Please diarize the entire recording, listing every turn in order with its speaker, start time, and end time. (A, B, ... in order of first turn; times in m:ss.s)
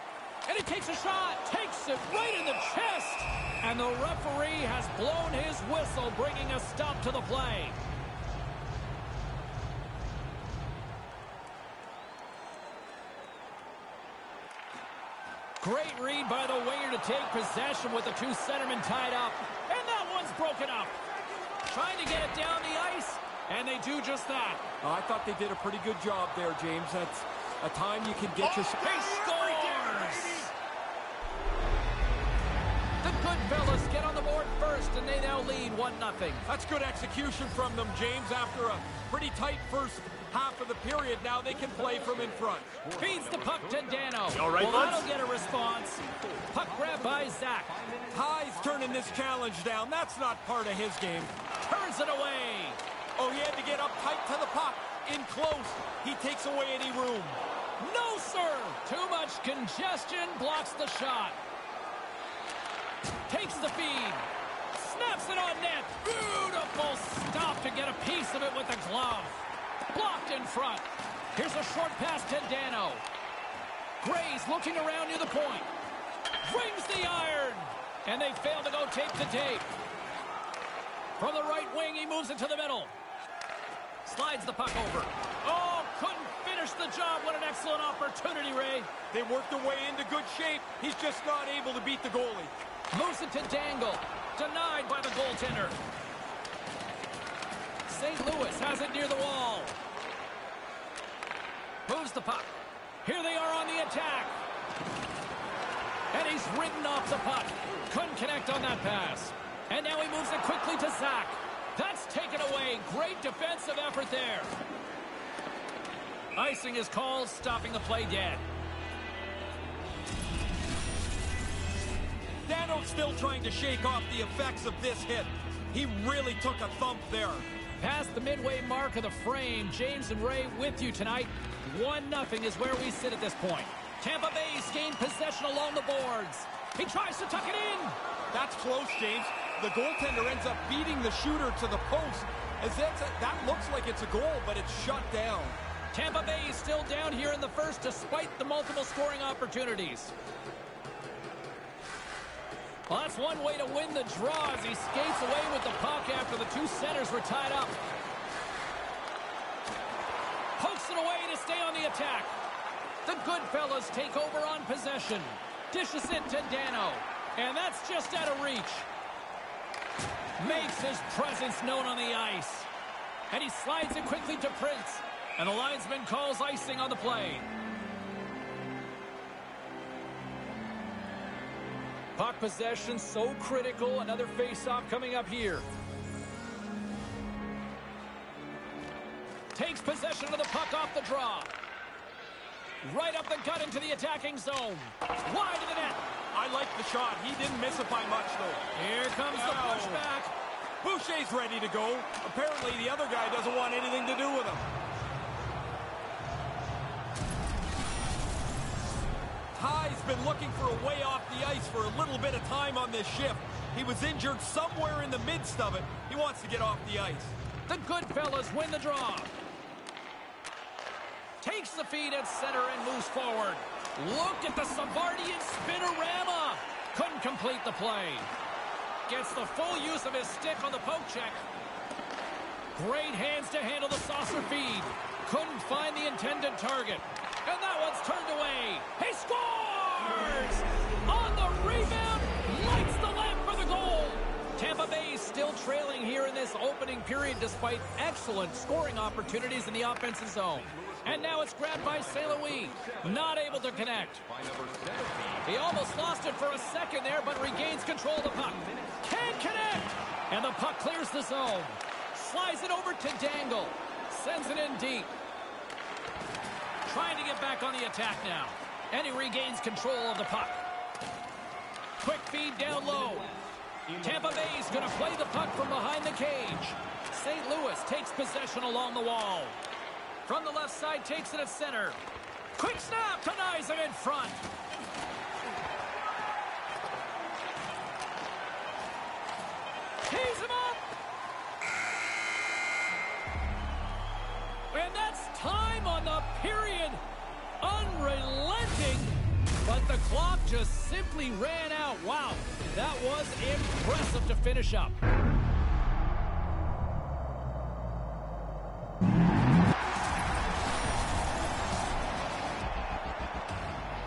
0:00.5-0:07.8 A
0:15.6-0:21.0 A
0:21.6-0:24.6 A
0:24.8-0:29.4 B
0:28.5-0:30.5 A
0:33.0-0:36.5 A
0:36.5-0:42.8 B
0:42.1-0:45.1 C
0:43.0-0:47.7 A
0:46.1-0:49.2 C
0:48.1-0:51.3 B
0:51.6-0:52.8 A
0:53.2-0:57.4 B
0:57.8-1:01.4 A
1:03.3-1:13.0 A
1:14.0-1:15.7 A
1:16.4-1:19.7 A
1:21.2-1:22.9 A
1:24.0-1:28.9 A
1:29.1-1:32.5 B
1:32.9-1:35.8 A
1:37.9-1:39.8 A
1:41.9-1:42.5 A
1:43.0-1:44.3 A
1:46.1-1:54.5 A
1:56.4-1:58.4 A
2:02.4-2:07.5 B
2:07.8-2:18.0 A
2:18.3-2:25.6 B
2:25.9-2:30.1 A
2:32.9-2:37.8 A
2:40.6-2:42.3 A
2:43.0-2:48.9 A
2:50.4-2:52.7 A
2:53.3-2:57.5 A
3:02.2-3:05.7 A
3:09.5-3:11.5 A
3:12.8-3:16.0 A
3:16.3-3:18.6 B
3:18.8-3:20.3 A
3:19.3-3:20.1 B
3:20.8-3:24.7 B
3:29.6-3:37.4 B
3:37.7-3:39.3 A
3:41.4-3:48.3 A
3:49.1-3:51.4 A
3:52.8-4:14.2 A
4:10.6-4:15.6 C
4:15.4-4:25.1 A
4:18.4-4:19.8 C
4:26.9-4:30.6 A
4:32.0-4:33.3 A
4:32.7-4:35.1 C
4:34.0-4:39.6 A
4:40.3-4:42.0 A
4:42.6-4:44.4 A
4:50.0-4:50.8 A
4:54.7-4:57.0 A
4:57.6-5:05.0 A